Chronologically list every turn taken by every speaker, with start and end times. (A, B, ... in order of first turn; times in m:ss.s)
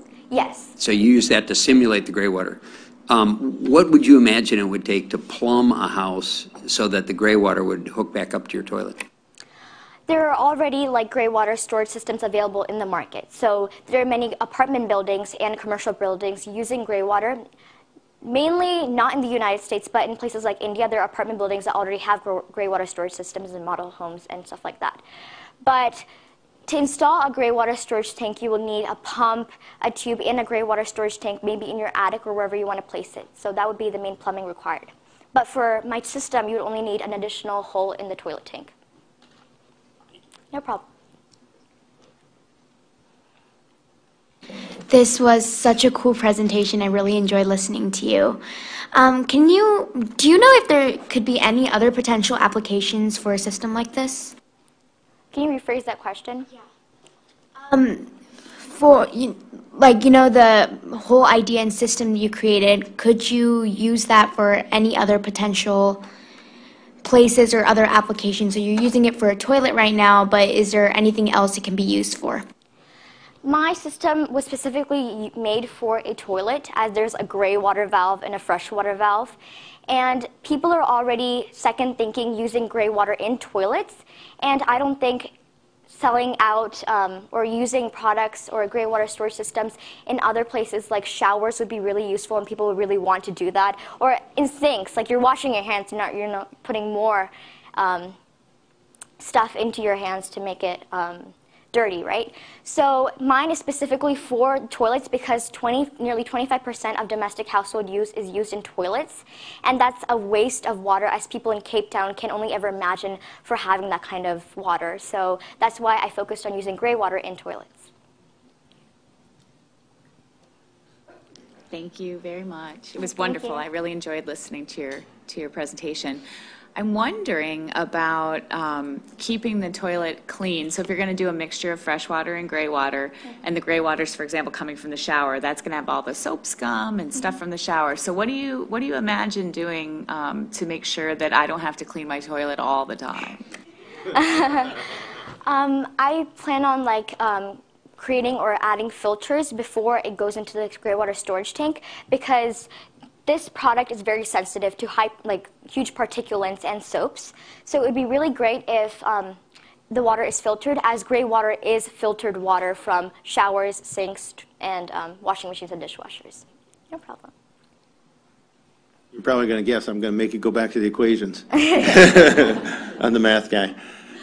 0:00.3-0:00.7 A
0:00.8-0:09.0 B
0:10.1-0:17.4 A
0:18.2-0:25.0 A
0:25.6-0:26.1 A
0:26.7-0:38.7 A
0:40.5-0:40.8 A
0:44.9-0:48.4 C
0:48.9-0:54.4 C
0:55.3-0:56.4 A
0:57.6-1:06.0 C
1:07.0-1:12.4 C
1:13.4-1:19.4 A
1:19.9-1:25.3 A
1:25.9-1:38.2 A
1:39.2-1:57.9 A
2:01.7-2:06.2 D
2:03.0-2:03.6 A
2:06.8-2:23.4 D
2:24.1-2:24.8 A
2:25.4-2:32.7 A
2:33.3-2:39.4 A
2:39.9-2:47.3 A
2:49.1-2:53.8 E